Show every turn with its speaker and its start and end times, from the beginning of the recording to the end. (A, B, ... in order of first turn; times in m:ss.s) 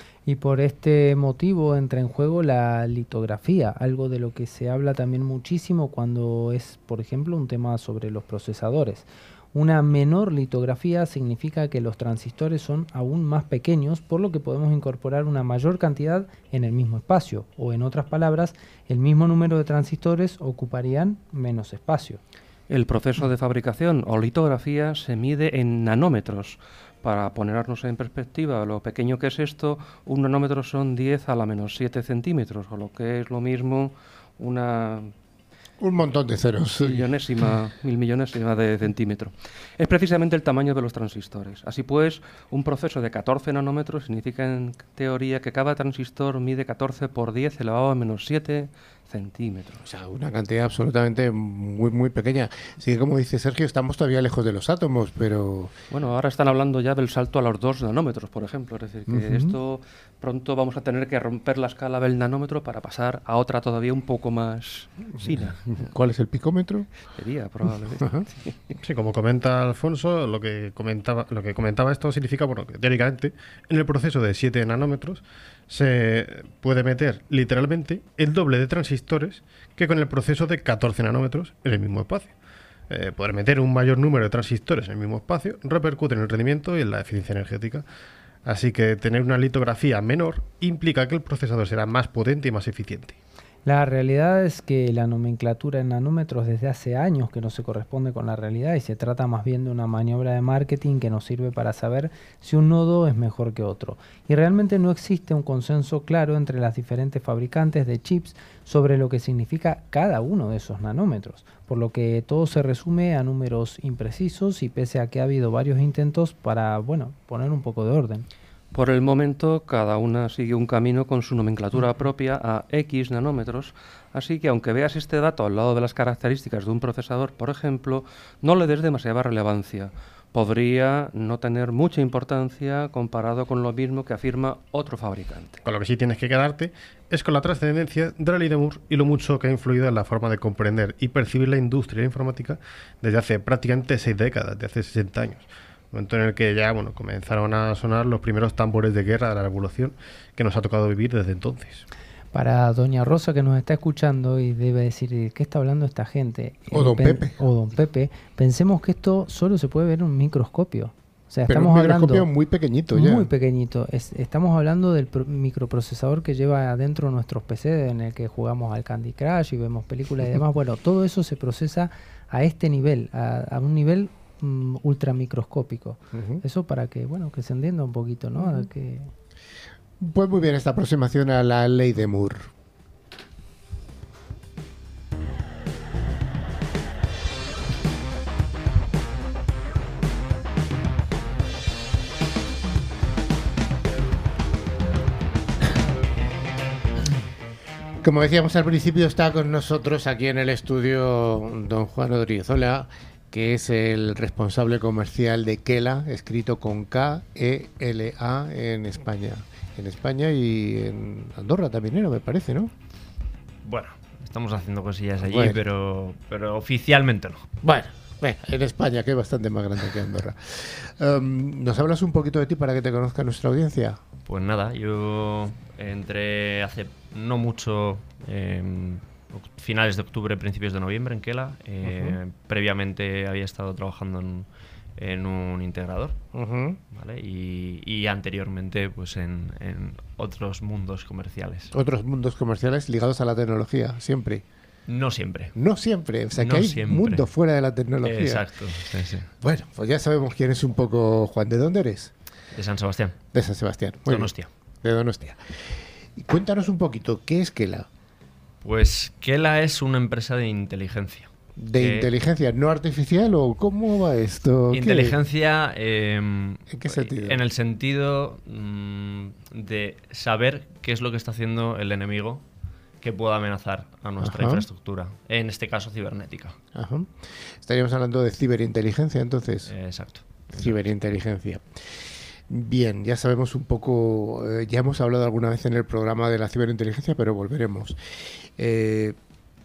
0:00.2-0:22.2 A
0:22.7-0:35.1 B
0:35.8-0:37.1 C
0:36.6-0:49.8 B
0:49.8-0:55.7 C
0:55.9-1:05.7 B
0:59.1-0:59.5 C
1:05.2-1:06.9 C
1:07.1-1:08.5 B
1:08.0-1:08.3 C
1:08.8-1:22.3 D
1:22.9-1:27.8 D
1:28.4-1:33.2 D
1:33.6-1:58.3 A
1:58.7-2:15.6 B
2:15.6-2:31.8 D
2:32.3-2:42.3 A
2:36.7-2:37.4 C
2:41.5-2:43.3 C
2:42.9-2:59.1 A
2:56.1-2:56.4 C
3:00.0-3:02.5 C
3:18.0-3:32.7 C
3:33.6-3:37.5 E
3:35.2-3:35.6 C
3:37.6-3:44.0 C
3:44.3-3:56.2 E
3:51.8-3:52.2 C
3:56.3-3:56.8 C
3:56.9-4:01.7 E
4:01.7-4:04.4 C
4:04.9-4:05.5 E
4:05.5-4:08.5 C
4:06.4-4:07.2 E
4:08.0-4:09.3 E
4:09.4-4:12.1 C
4:12.5-4:13.2 E
4:13.3-4:14.3 C
4:14.0-4:14.5 E
4:14.8-4:17.9 C
4:18.6-4:22.1 E
4:21.6-4:25.2 C
4:24.7-4:32.4 E
4:26.7-4:27.4 C
4:33.0-4:36.6 E
4:34.2-4:34.6 C
4:36.7-4:39.7 C
4:39.6-4:40.7 E
4:40.5-4:41.7 C
4:42.5-4:49.2 C